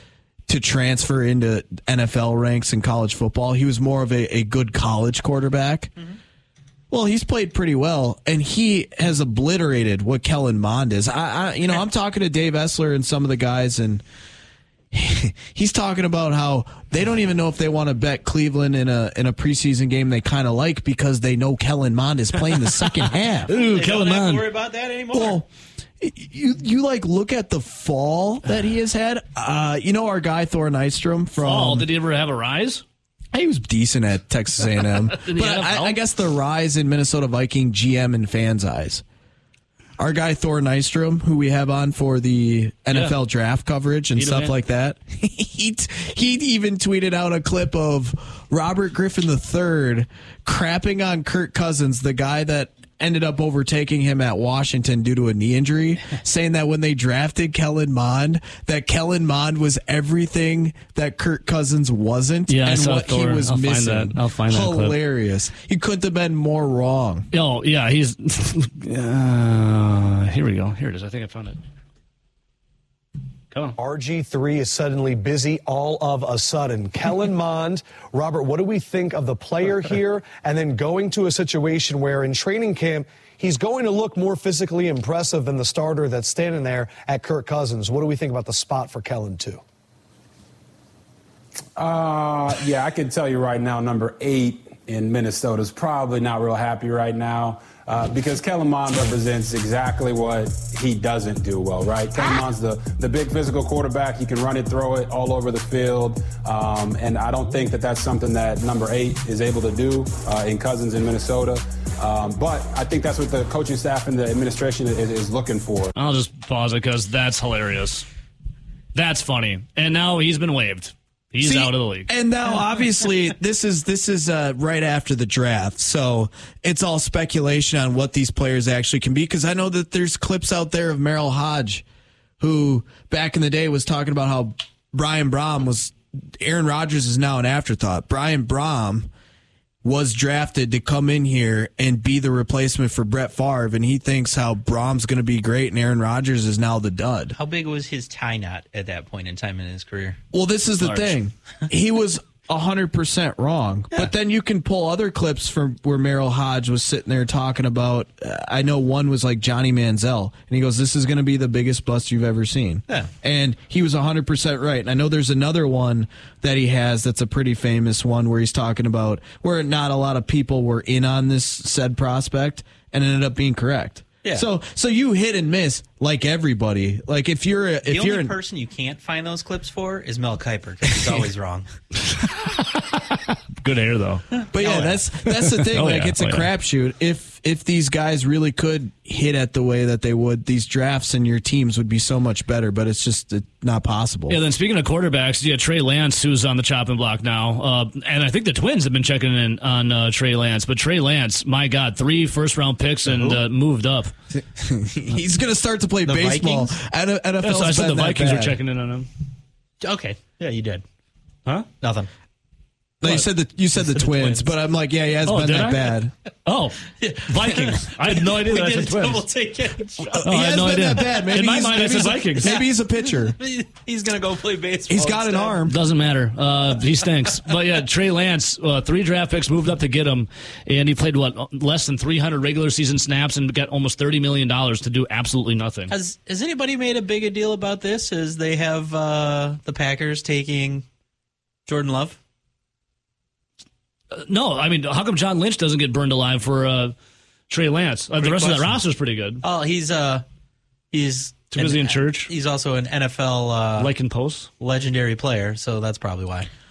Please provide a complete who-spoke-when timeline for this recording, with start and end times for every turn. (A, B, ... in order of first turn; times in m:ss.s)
0:00.5-0:05.9 A
0:06.9-0:14.0 A
0:14.9-0:23.5 A
0:23.5-0:24.5 B
0:23.5-0:25.4 C
0:25.1-0:25.5 A
0:26.0-0:31.9 A
0:31.4-0:32.8 B
0:33.3-0:39.0 A
0:35.1-0:36.0 B
0:40.0-1:07.3 A
0:44.2-0:44.5 B
1:02.5-1:05.0 B
1:07.3-1:11.6 B
1:13.5-1:13.8 B
1:13.8-1:29.6 D
1:31.8-1:55.9 E
1:56.0-1:58.0 B
1:58.9-2:02.1 B
2:01.4-2:11.8 A
2:12.4-2:19.1 A
2:19.8-2:27.4 A
2:27.3-2:30.2 C
2:30.3-2:58.3 A
2:30.8-2:31.2 B
2:57.8-3:01.7 C
3:02.1-3:04.2 B
3:04.4-3:05.0 C
3:04.5-3:14.4 A
3:05.5-3:06.5 B
3:14.3-3:24.1 B
3:23.1-3:23.4 C
3:24.3-3:28.6 A
3:26.0-3:26.8 C
3:27.4-3:29.1 B
3:29.8-3:30.8 C
3:31.8-3:32.1 C
3:33.0-3:36.1 A
3:34.0-3:34.4 B
3:35.2-3:35.9 B
3:36.4-3:39.3 B
3:37.0-3:40.2 C
3:40.2-3:43.4 A
3:40.2-3:42.5 B
3:42.4-3:45.6 C
3:44.9-3:45.8 A
3:45.6-3:55.9 B
3:55.9-4:00.8 C
4:01.6-4:02.2 C
4:04.1-4:06.9 B
4:07.5-4:09.4 B
4:08.2-4:08.8 C
4:09.4-4:10.2 C
4:10.9-4:13.9 C
4:11.5-4:12.3 B
4:13.8-4:14.5 B
4:14.6-4:16.5 C